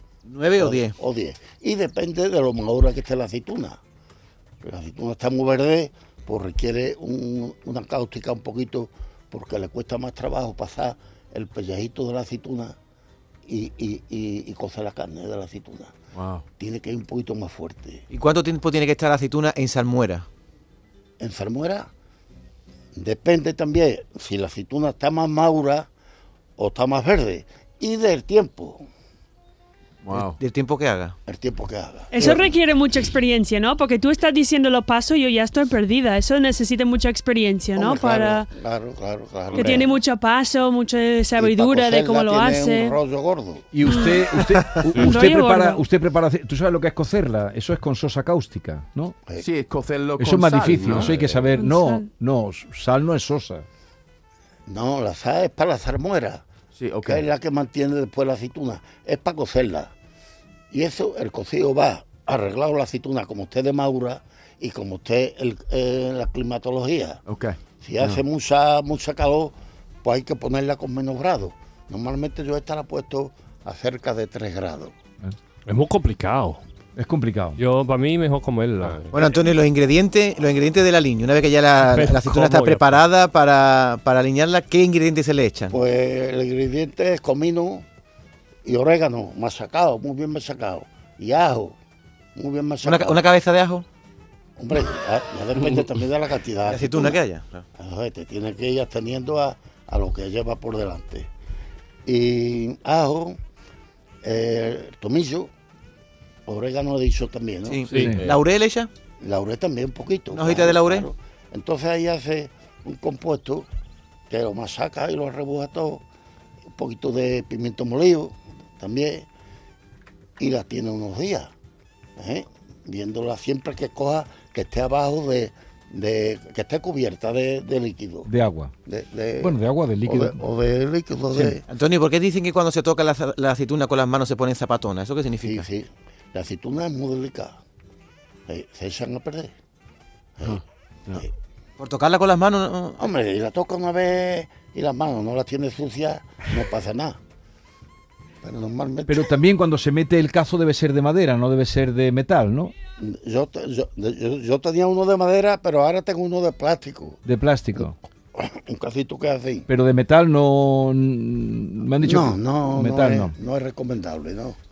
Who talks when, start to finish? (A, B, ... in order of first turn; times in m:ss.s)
0:00.3-0:01.0 A
0:00.6-0:03.8 B
0:04.6-0:12.8 B
0:13.5-0:16.0 B
0:16.1-0:16.4 C
0:16.6-0:18.0 B
0:18.1-0:20.3 A
0:21.2-0:21.9 B
0:23.0-0:25.9 B
0:26.6-0:28.8 B
0:30.0-0:30.4 C
0:30.1-0:31.2 A
0:31.3-0:32.5 B
0:32.1-0:38.5 D
0:37.8-0:39.9 B
0:39.5-0:43.0 D
0:41.4-0:43.7 B
0:43.7-0:49.2 E
0:43.8-0:45.8 D
0:49.4-0:51.4 C
0:50.2-0:53.6 E
0:51.5-0:52.1 D
0:54.7-0:56.4 B
0:56.8-0:57.2 C
0:57.0-0:59.9 B
1:00.7-1:07.2 B
1:07.3-1:08.1 C
1:07.8-1:14.9 B
1:15.7-1:16.6 F
1:17.0-1:17.6 E
1:17.6-1:19.1 F
1:19.1-1:25.8 A
1:21.8-1:22.9 F
1:25.7-1:27.8 B
1:28.6-1:31.8 B
1:32.4-1:33.2 B
1:32.8-1:33.8 A
1:34.6-1:37.2 B
1:36.7-1:37.7 A
1:37.8-1:41.3 B
1:42.1-1:43.4 B
1:44.2-1:45.5 B
1:46.5-1:47.8 B
1:47.7-1:48.9 A
1:47.9-1:48.2 F
1:47.9-1:48.2 E
1:49.2-1:53.7 B
1:50.3-1:51.1 A
1:54.3-1:56.0 B
1:56.7-1:59.3 B
2:00.4-2:01.5 B
2:02.2-2:08.3 B
2:08.3-2:08.7 E
2:08.9-2:11.6 B
2:09.4-2:10.4 E
2:11.7-2:15.6 A
2:15.4-2:17.6 B
2:18.5-2:19.5 B
2:20.4-2:21.3 B
2:21.8-2:23.0 A
2:23.0-2:27.2 B
2:28.4-2:29.4 B
2:29.1-2:32.7 E
2:33.0-2:37.2 B
2:37.3-2:38.0 E
2:38.4-2:39.7 B
2:39.7-2:43.3 E
2:42.0-2:44.6 B